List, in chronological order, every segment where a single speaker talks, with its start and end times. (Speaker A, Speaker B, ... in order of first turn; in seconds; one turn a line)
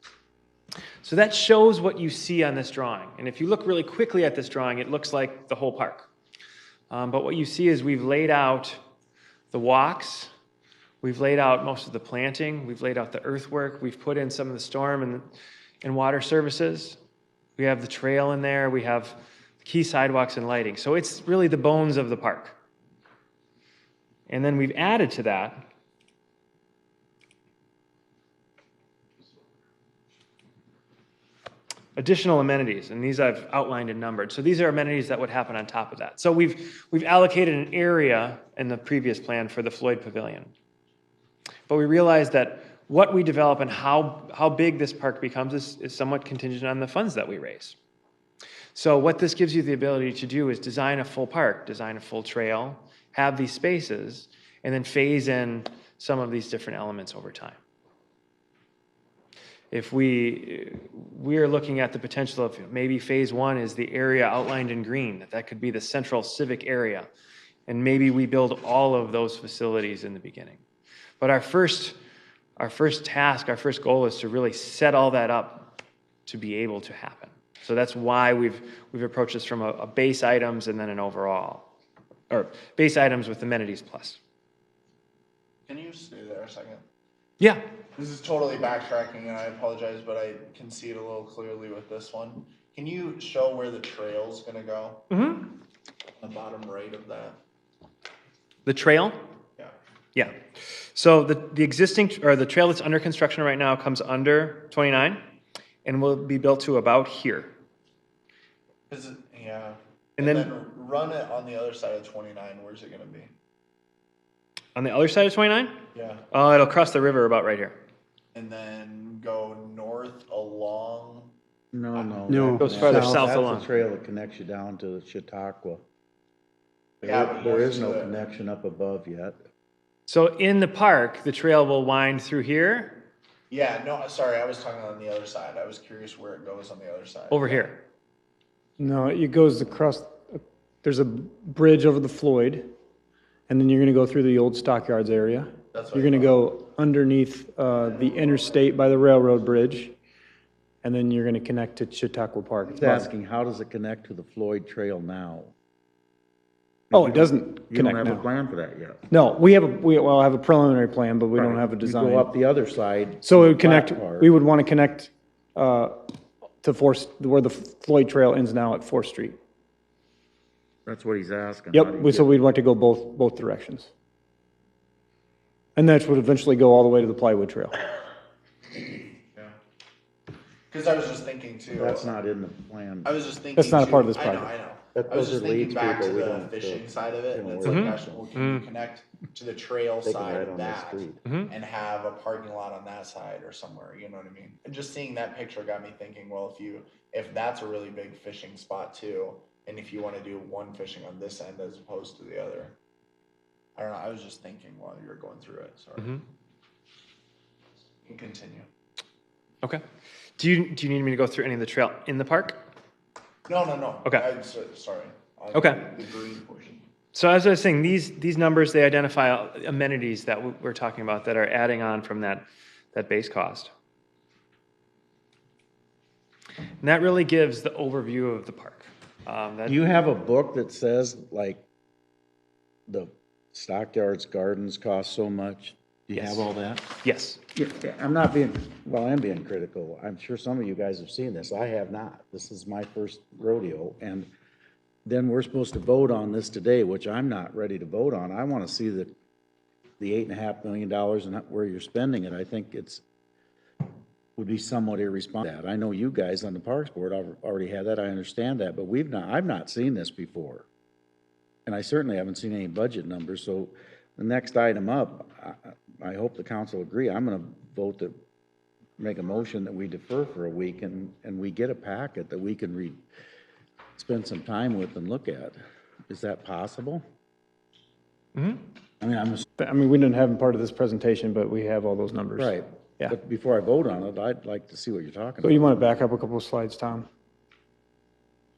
Speaker A: 1.0-6.1
Speaker A: 6.9-8.8
Speaker A: 9.5-10.3
Speaker A: 11.0-15.3
Speaker A: 15.8-17.0
Speaker A: 17.6-22.6
Speaker A: 24.3-25.6
Speaker A: 32.0-40.5
Speaker A: 41.7-47.8
Speaker A: 48.7-57.6
Speaker A: 59.7-67.1
Speaker A: 67.7-70.6
Speaker A: 71.2-72.0
Speaker A: 72.6-81.7
Speaker A: 82.3-84.2
Speaker B: 85.7-86.8
Speaker B: 88.0-95.1
Speaker A: 95.1-95.5
Speaker B: 96.2-97.4
Speaker A: 98.7-99.2
Speaker A: 100.2-105.2
Speaker A: 105.8-107.5
Speaker B: 108.9-113.3
Speaker A: 110.2-110.5
Speaker A: 114.8-117.8
Speaker B: 115.9-116.2
Speaker B: 118.3-121.3
Speaker C: 121.7-125.8
Speaker B: 121.9-122.7
Speaker D: 122.3-123.2
Speaker A: 122.6-123.7
Speaker C: 127.0-129.4
Speaker B: 127.0-128.2
Speaker A: 130.1-133.1
Speaker B: 133.5-137.7
Speaker A: 137.3-137.8
Speaker D: 138.8-142.7
Speaker D: 143.5-149.9
Speaker B: 145.7-146.4
Speaker B: 148.0-148.5
Speaker D: 150.8-153.1
Speaker C: 152.8-155.5
Speaker C: 156.9-159.0
Speaker D: 156.9-158.2
Speaker D: 159.1-162.3
Speaker C: 161.3-164.3
Speaker D: 163.2-166.1
Speaker D: 166.6-169.4
Speaker C: 170.8-172.4
Speaker D: 171.7-173.9
Speaker D: 175.8-177.8
Speaker B: 180.7-182.1
Speaker C: 181.7-183.1
Speaker B: 183.1-202.8
Speaker D: 183.6-184.5
Speaker C: 184.9-188.2
Speaker A: 187.7-188.7
Speaker C: 190.0-191.2
Speaker A: 191.3-191.5
Speaker B: 203.8-206.2
Speaker A: 206.0-206.2
Speaker B: 208.1-208.7
Speaker A: 210.4-212.6
Speaker B: 213.5-216.8
Speaker A: 215.5-215.8
Speaker A: 217.1-223.7
Speaker A: 226.8-229.8
Speaker C: 229.7-231.6
Speaker C: 232.9-236.9
Speaker A: 236.2-236.4
Speaker A: 237.0-237.4
Speaker C: 237.5-244.3
Speaker C: 245.1-249.1
Speaker C: 250.0-253.0
Speaker C: 254.4-260.7
Speaker C: 261.7-268.2
Speaker C: 269.0-273.0
Speaker C: 274.0-275.6
Speaker C: 276.1-277.0
Speaker A: 278.4-278.7
Speaker C: 279.0-279.4
Speaker D: 279.6-283.2
Speaker C: 282.4-285.8
Speaker D: 285.4-287.1